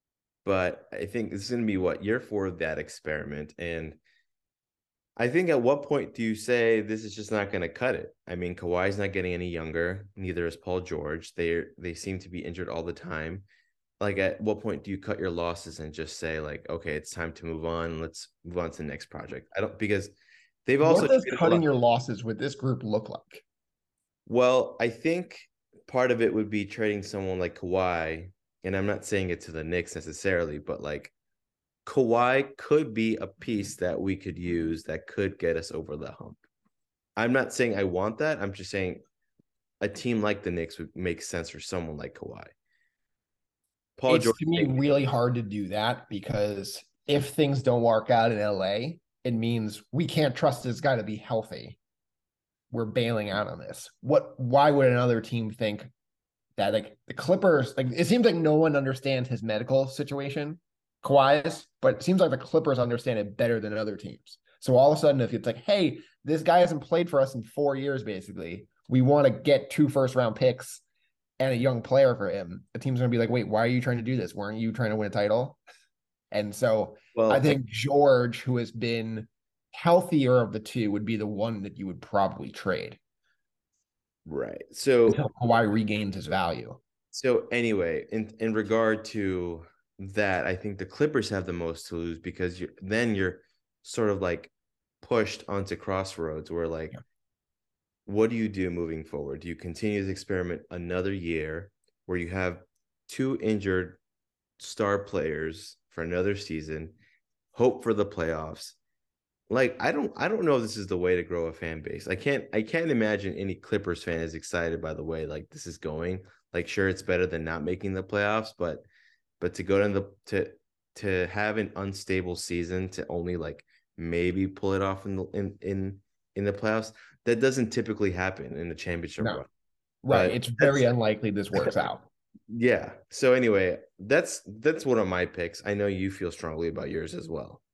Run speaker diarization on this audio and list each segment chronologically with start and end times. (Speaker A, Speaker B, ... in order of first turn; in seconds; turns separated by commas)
Speaker A: 0.4-4.0, Speaker A: 5.2-13.4, Speaker A: 14.0-20.1, Speaker A: 20.6-21.6, Speaker B: 20.8-23.4, Speaker A: 24.2-31.1, Speaker A: 31.9-36.4, Speaker A: 37.1-39.0, Speaker A: 39.8-42.5, Speaker A: 44.0-44.8, Speaker B: 44.1-51.8, Speaker B: 52.7-55.9, Speaker B: 56.6-70.8, Speaker B: 71.4-75.6, Speaker B: 76.3-83.0, Speaker A: 77.1-77.5, Speaker A: 84.2-85.2, Speaker B: 85.1-86.8, Speaker A: 87.1-94.5, Speaker A: 95.0-97.0, Speaker A: 98.0-104.0, Speaker A: 104.6-106.9, Speaker A: 107.5-108.8, Speaker A: 109.5-118.8, Speaker A: 119.4-129.5, Speaker B: 130.0-132.1, Speaker A: 130.1-130.8, Speaker A: 132.5-137.6